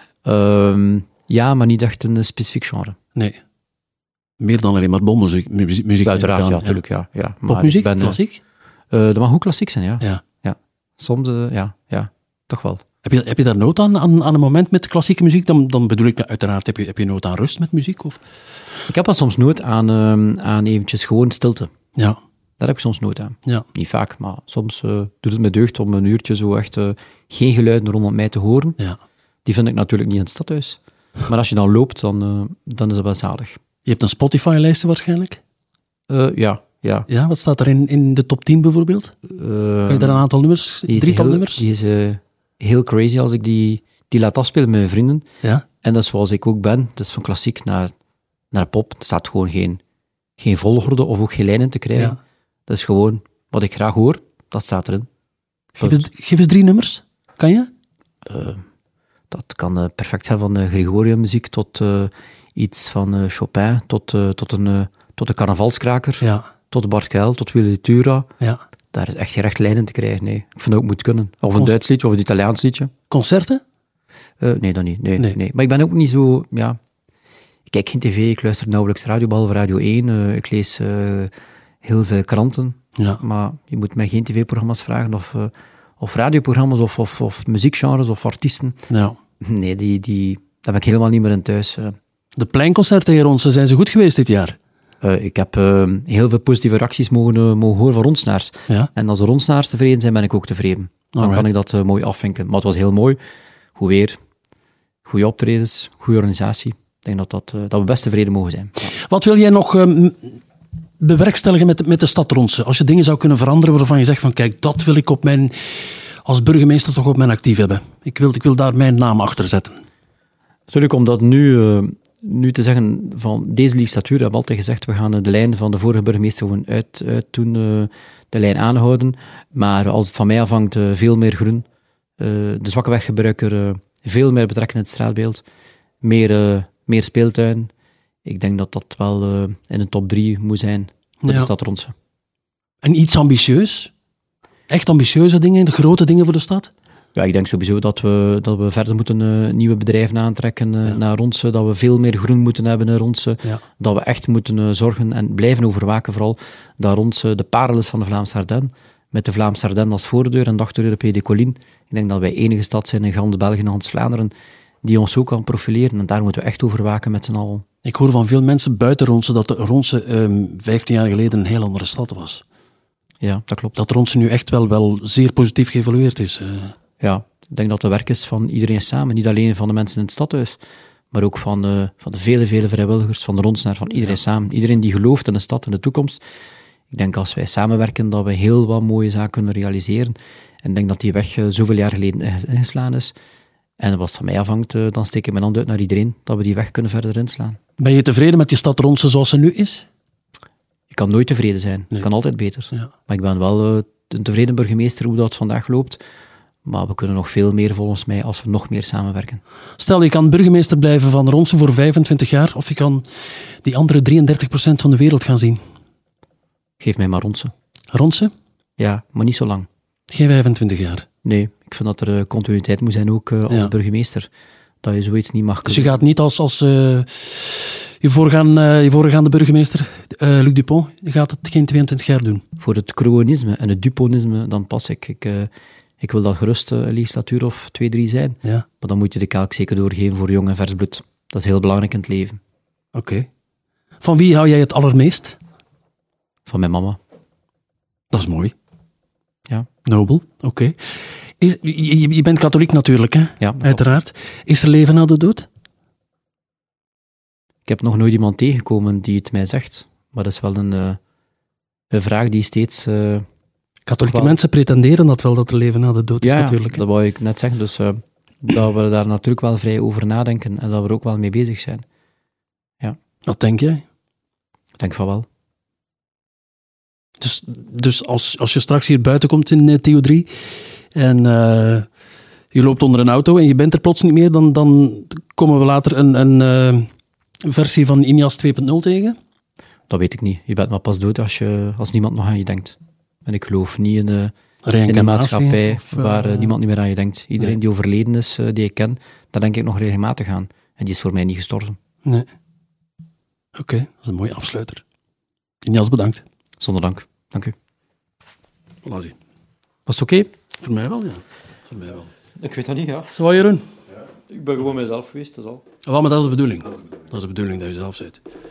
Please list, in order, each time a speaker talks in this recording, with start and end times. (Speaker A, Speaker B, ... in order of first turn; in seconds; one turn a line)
Speaker A: 0.2-3.0
Speaker B: 4.4-6.8
Speaker A: 6.0-8.2
Speaker B: 7.5-8.4
Speaker A: 8.9-12.8
Speaker B: 13.0-18.2
Speaker A: 18.9-21.7
Speaker A: 22.6-28.8
Speaker A: 29.4-33.6
Speaker B: 33.9-35.4
Speaker A: 36.1-37.1
Speaker B: 37.1-39.1
Speaker A: 39.3-40.3
Speaker B: 39.9-41.6
Speaker A: 40.9-45.2
Speaker A: 45.8-47.9
Speaker A: 48.5-49.8
Speaker A: 50.4-52.2
Speaker A: 52.7-55.1
Speaker A: 55.8-56.0
Speaker B: 55.8-57.7
Speaker A: 58.3-58.6
Speaker A: 59.3-68.3
Speaker B: 66.2-66.5
Speaker A: 68.9-72.9
Speaker B: 73.1-73.6
Speaker A: 74.4-76.8
Speaker A: 77.7-81.3
Speaker A: 81.8-88.8
Speaker B: 88.9-89.2
Speaker A: 89.4-92.0
Speaker B: 92.4-94.6
Speaker A: 95.0-103.2
Speaker B: 101.1-101.5
Speaker A: 103.8-104.2
Speaker A: 105.0-108.9
Speaker B: 109.0-110.4
Speaker B: 111.0-119.8
Speaker A: 120.7-131.7
Speaker A: 132.2-135.4
Speaker A: 136.0-137.7
Speaker A: 138.2-141.9
Speaker B: 141.2-141.5
Speaker B: 142.8-143.9
Speaker B: 144.7-146.7
Speaker A: 147.2-164.3
Speaker A: 164.8-167.7
Speaker B: 167.8-172.4
Speaker A: 173.2-173.8
Speaker B: 173.8-176.7
Speaker A: 177.0-180.6
Speaker A: 181.1-186.2
Speaker A: 186.9-193.1
Speaker A: 193.8-197.6
Speaker B: 197.8-199.9
Speaker A: 200.9-206.0
Speaker A: 206.7-209.4
Speaker B: 209.8-213.1
Speaker B: 213.6-215.6
Speaker A: 216.8-217.5
Speaker B: 217.9-218.3
Speaker A: 218.8-219.7
Speaker B: 220.1-221.1
Speaker A: 221.2-224.3
Speaker A: 224.8-226.0
Speaker B: 225.7-232.4
Speaker A: 232.6-235.5
Speaker A: 236.0-242.4
Speaker B: 242.9-243.3
Speaker B: 244.0-245.4
Speaker A: 246.5-247.0
Speaker B: 248.1-248.5
Speaker B: 249.8-250.8
Speaker B: 251.4-255.5
Speaker A: 253.4-253.8
Speaker A: 257.7-261.0
Speaker A: 261.9-263.2
Speaker B: 263.9-266.8
Speaker A: 264.0-264.4
Speaker A: 266.2-271.8
Speaker B: 273.2-273.8
Speaker A: 274.8-275.2
Speaker B: 277.2-280.3
Speaker B: 280.9-281.9
Speaker B: 282.5-286.9
Speaker B: 287.4-289.2
Speaker A: 289.9-294.3
Speaker B: 294.6-296.5
Speaker A: 294.9-301.8
Speaker B: 303.6-304.8
Speaker B: 305.6-306.2
Speaker A: 306.6-307.5
Speaker B: 308.8-309.2
Speaker A: 309.9-310.3
Speaker B: 310.6-312.1
Speaker A: 312.4-313.1
Speaker B: 313.1-313.6
Speaker A: 314.3-315.6
Speaker B: 315.9-318.2